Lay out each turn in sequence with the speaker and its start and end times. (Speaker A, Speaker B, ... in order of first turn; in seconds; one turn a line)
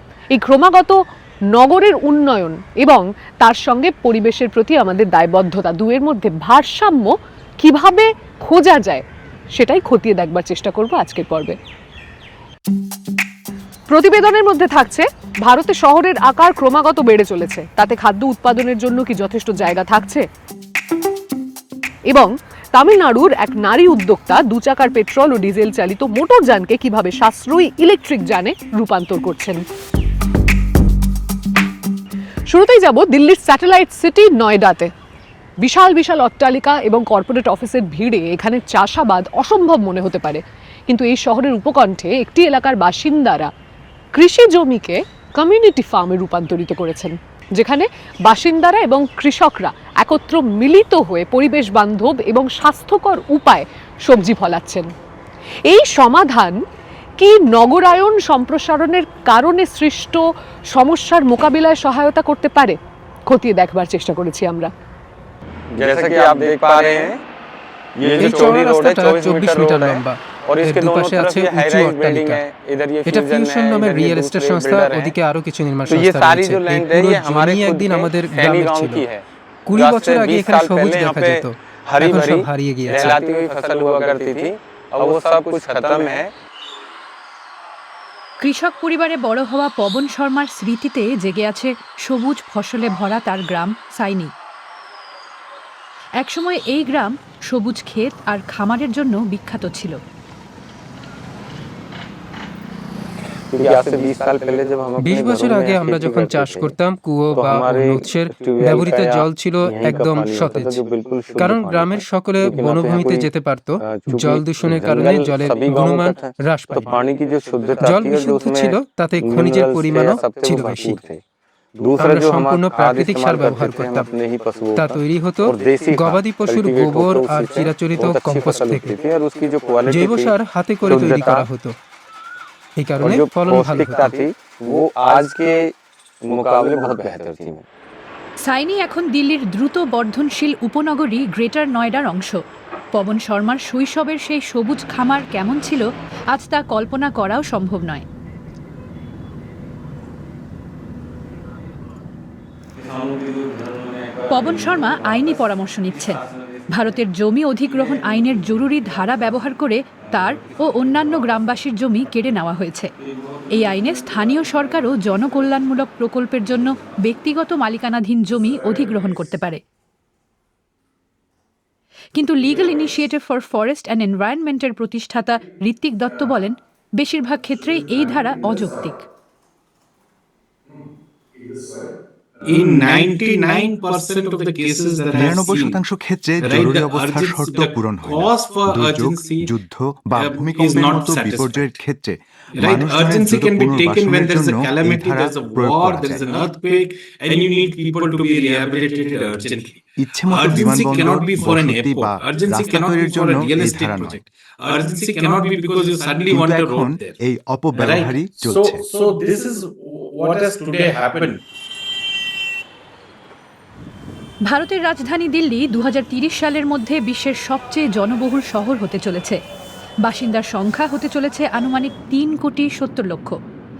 Speaker A: 0.3-1.0
Speaker A: 1.5-11.6
Speaker A: 13.9-20.3
Speaker A: 22.1-29.6
Speaker A: 32.5-34.9
Speaker A: 35.6-43.5
Speaker A: 44.1-54.9
Speaker A: 55.7-56.6
Speaker A: 57.2-62.8
Speaker A: 63.3-64.7
Speaker B: 65.8-67.2
Speaker B: 68.0-75.1
Speaker C: 68.0-72.4
Speaker C: 73.1-79.0
Speaker B: 75.9-86.3
Speaker C: 79.7-83.2
Speaker D: 88.4-94.3
Speaker D: 96.2-100.0
Speaker B: 103.5-106.7
Speaker C: 105.0-110.8
Speaker B: 107.3-113.3
Speaker C: 111.4-117.0
Speaker B: 113.8-121.2
Speaker C: 117.8-121.0
Speaker B: 121.8-130.3
Speaker C: 122.0-124.1
Speaker C: 124.8-128.9
Speaker C: 129.9-131.7
Speaker B: 130.8-131.5
Speaker C: 132.8-134.2
Speaker B: 133.0-135.6
Speaker B: 136.3-137.6
Speaker D: 138.4-142.4
Speaker D: 142.9-148.1
Speaker B: 152.8-154.2
Speaker D: 154.3-156.2
Speaker D: 156.7-162.9
Speaker D: 163.5-169.6
Speaker D: 172.2-179.1
Speaker E: 182.4-185.8
Speaker F: 185.1-196.3
Speaker E: 186.4-189.5
Speaker E: 190.2-191.7
Speaker E: 192.6-207.2
Speaker F: 200.0-204.2
Speaker F: 206.2-208.8
Speaker E: 207.8-211.4
Speaker D: 214.5-219.4
Speaker D: 220.0-223.4